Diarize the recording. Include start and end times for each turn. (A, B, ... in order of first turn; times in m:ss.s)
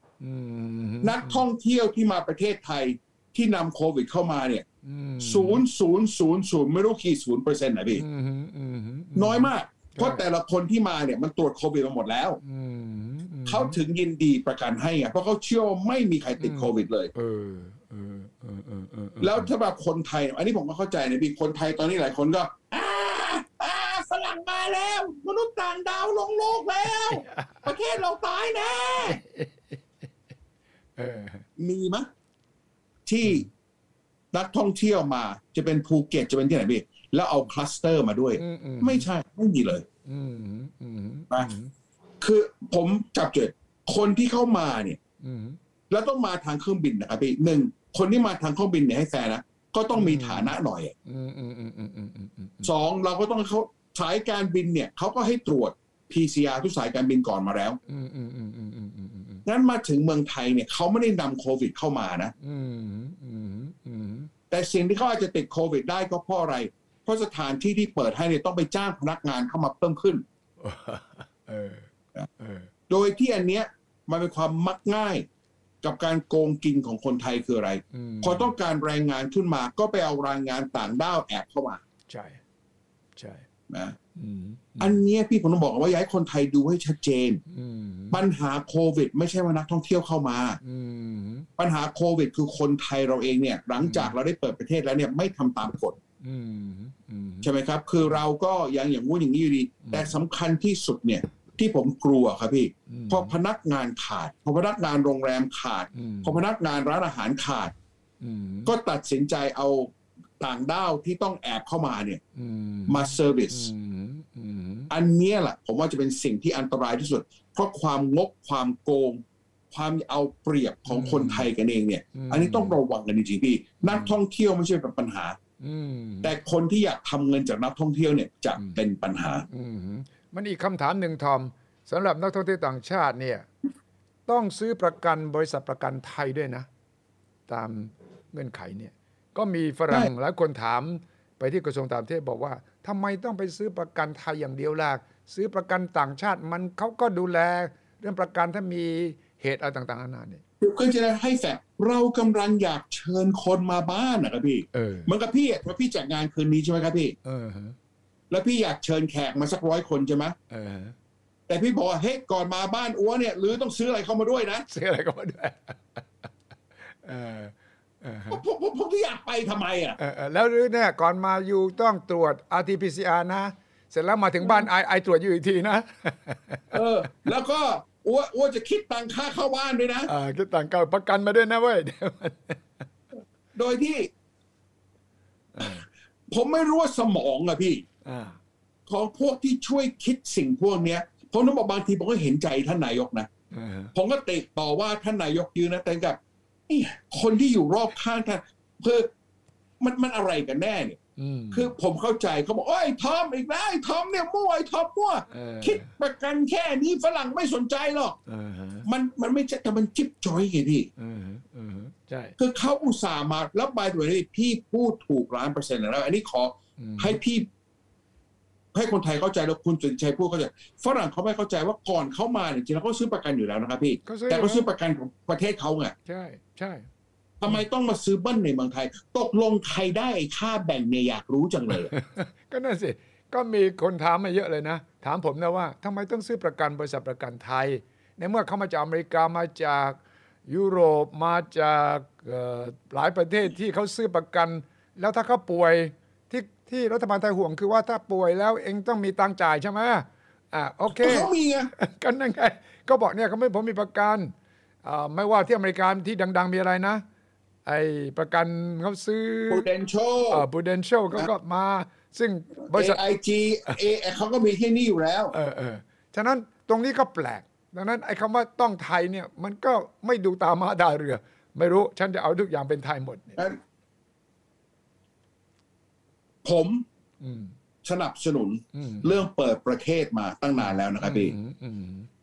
0:00.2-0:01.4 A
0:01.0-0:04.6 B
0:04.8-0:05.6 A
0:05.2-0:08.0 B
0:07.9-0:10.2 A
0:09.1-0:12.4 B
0:12.4-0:13.8 A
0:13.5-0:17.1 B
0:16.4-0:19.5 A
0:19.2-0:29.2 B
0:26.9-0:27.7 A
0:29.0-0:29.8 A
0:31.0-0:31.4 A
0:31.6-0:32.1 B
0:33.0-0:33.5 B
0:34.3-0:39.8 B
0:38.4-0:39.1 A
0:40.0-0:41.7 A
0:42.2-0:45.0 B
0:45.2-0:45.6 A
0:45.9-0:50.9 B
0:49.9-0:52.7 A
0:52.6-0:57.8 B
0:57.9-0:59.4 A
0:59.4-1:02.3 B
1:02.4-1:04.3 A
1:04.5-1:10.2 B
1:10.6-1:11.9 A
1:12.4-1:12.7 A
1:12.9-1:15.3 B
1:15.8-1:21.8 B
1:17.9-1:18.5 A
1:22.1-1:22.4 A
1:23.2-1:23.4 A
1:23.7-1:24.0 B
1:24.2-1:25.0 A
1:24.8-1:27.4 B
1:27.5-1:28.2 A
1:28.1-1:30.6 B
1:30.6-1:31.5 A
1:31.6-1:36.0 B
1:33.8-1:34.1 A
1:36.2-1:37.5 A
1:37.4-1:47.7 B
1:39.8-1:40.1 A
1:42.9-1:43.3 A
1:45.9-1:46.4 A
1:48.2-1:48.7 A
1:48.6-1:52.2 B
1:52.3-1:54.9 A
1:52.9-1:53.7 B
1:54.9-2:05.4 B
2:00.8-2:01.5 A
2:02.1-2:02.8 A
2:03.8-2:04.2 A
2:05.6-2:06.3 A
2:06.2-2:09.4 B
2:09.5-2:13.5 A
2:14.3-2:16.7 A
2:17.5-2:30.4 A
2:30.6-2:37.1 B
2:34.7-2:35.1 A
2:37.2-2:37.8 A
2:38.3-2:40.4 B
2:40.5-2:40.9 A
2:41.5-2:44.6 B
2:44.7-2:46.0 A
2:46.9-2:48.4 A
2:48.3-2:50.0 B
2:50.0-2:56.8 A
2:56.7-3:00.1 B
3:00.1-3:02.7 A
3:03.5-3:04.1 B
3:05.5-3:05.8 A
3:06.3-3:07.8 B
3:08.0-3:08.4 A
3:08.9-3:13.3 B
3:13.5-3:13.9 A
3:13.9-3:19.1 B
3:19.8-3:21.0 B
3:21.2-3:21.7 A
3:21.5-3:28.2 B
3:25.3-3:25.9 A
3:28.3-3:28.9 A
3:28.8-3:30.9 B
3:31.0-3:32.3 A
3:32.4-3:37.5 B
3:36.8-3:37.2 A
3:38.7-3:45.9 B
3:44.0-3:44.7 A
3:46.0-3:46.8 A
3:47.4-3:51.9 B
3:51.7-4:14.3 A
4:11.0-4:11.7 B
4:14.8-4:17.0 A
4:17.6-4:19.7 A
4:19.5-4:20.4 B
4:20.3-4:23.0 A
4:22.7-4:25.3 B
4:25.3-4:33.4 A
4:36.4-4:36.8 B
4:37.2-4:37.5 A
4:37.8-4:41.3 B
4:38.7-4:39.2 A
4:40.6-4:42.1 A